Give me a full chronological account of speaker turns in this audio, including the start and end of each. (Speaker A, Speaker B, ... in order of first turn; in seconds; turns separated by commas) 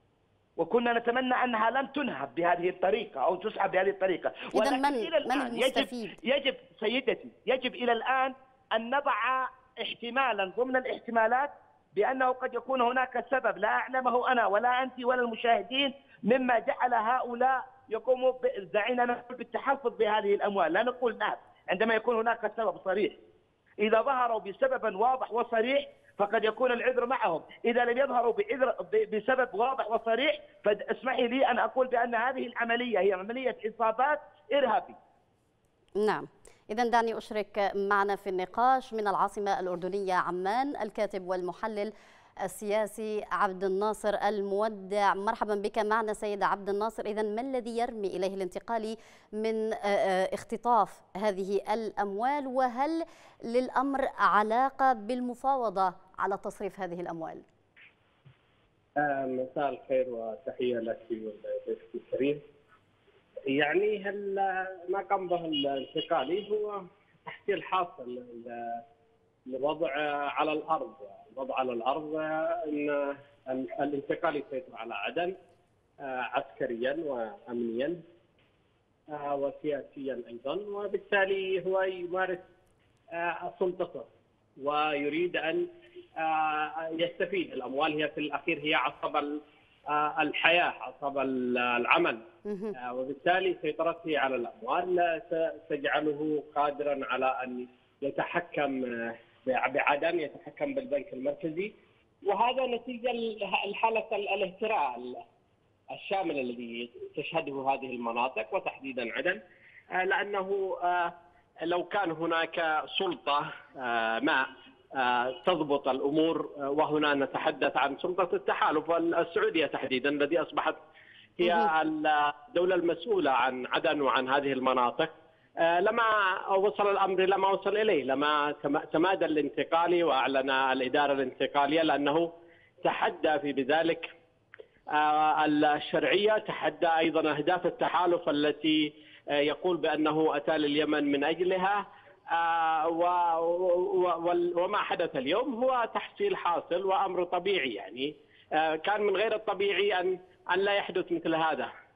Speaker A: 0.6-23.2, Speaker B: 4.5-6.2, Speaker A: 23.8-35.0, Speaker B: 36.0-41.9, Speaker B: 42.4-57.4, Speaker C: 59.0-62.4, Speaker C: 63.5-68.8, Speaker C: 69.5-75.3, Speaker C: 76.0-78.0, Speaker C: 79.1-82.4, Speaker C: 83.1-84.1, Speaker C: 84.6-92.2, Speaker B: 92.5-92.7, Speaker C: 92.8-101.7, Speaker C: 102.2-105.2, Speaker C: 105.9-109.4, Speaker C: 110.0-111.1, Speaker C: 111.7-120.8, Speaker C: 121.4-132.3, Speaker B: 121.4-121.7, Speaker C: 132.8-134.1, Speaker C: 134.9-141.8, Speaker C: 142.3-151.7